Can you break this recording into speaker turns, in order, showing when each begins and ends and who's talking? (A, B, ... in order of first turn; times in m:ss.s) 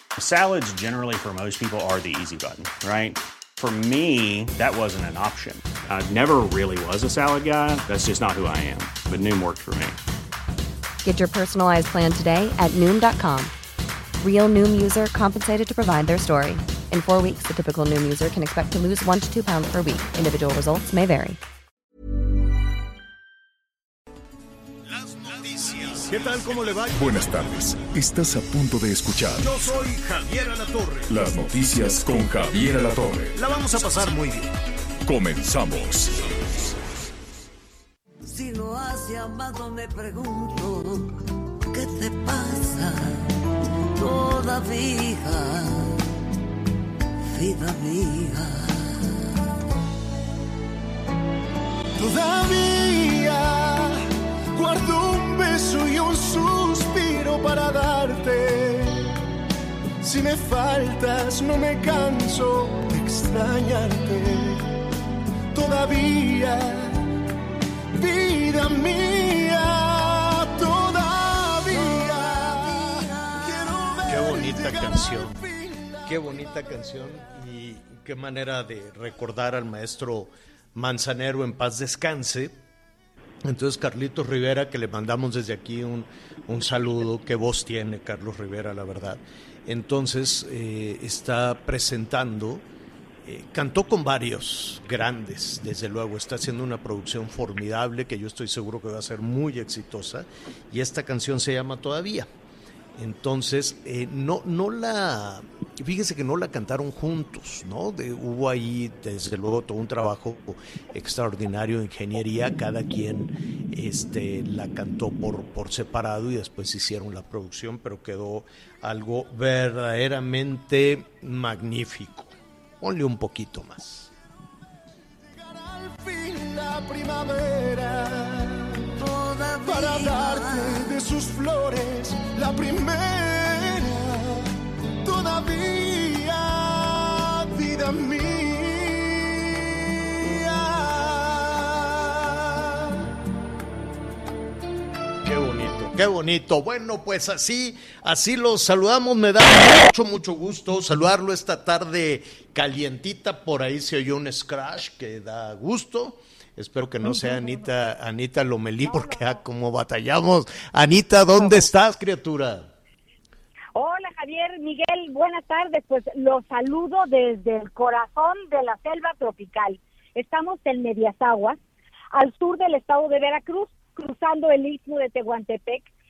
0:00.2-0:10.0 A
0:11.0-0:13.5 B
0:14.2-0:21.4 B
0:24.9-0:26.8 C
0:26.9-0:29.5 D
0:29.4-0:31.2 C
0:31.1-0:33.4 D
0:33.3-0:34.5 C
0:35.0-0:36.7 D
0:38.2-0:41.1 E
0:41.7-0:43.2 E
0:44.0-0:46.0 E
0:47.3-0:49.1 E
0:52.0-0:54.0 F
0:54.5-0:59.2 F
1:00.0-1:04.8 F
1:05.5-1:07.0 F
1:07.9-1:17.0 F
1:11.7-1:14.1 E
1:14.1-1:15.4 C
1:16.0-1:22.5 C
1:23.4-1:32.6 C
1:33.2-1:42.3 C
1:43.0-2:04.1 C
2:05.2-2:08.9 F
2:09.0-2:10.9 E
2:09.6-2:23.0 F
2:25.2-2:42.7 C
2:37.0-2:37.4 G
2:38.8-2:39.4 G
2:43.8-2:51.6 G
2:52.1-2:55.9 G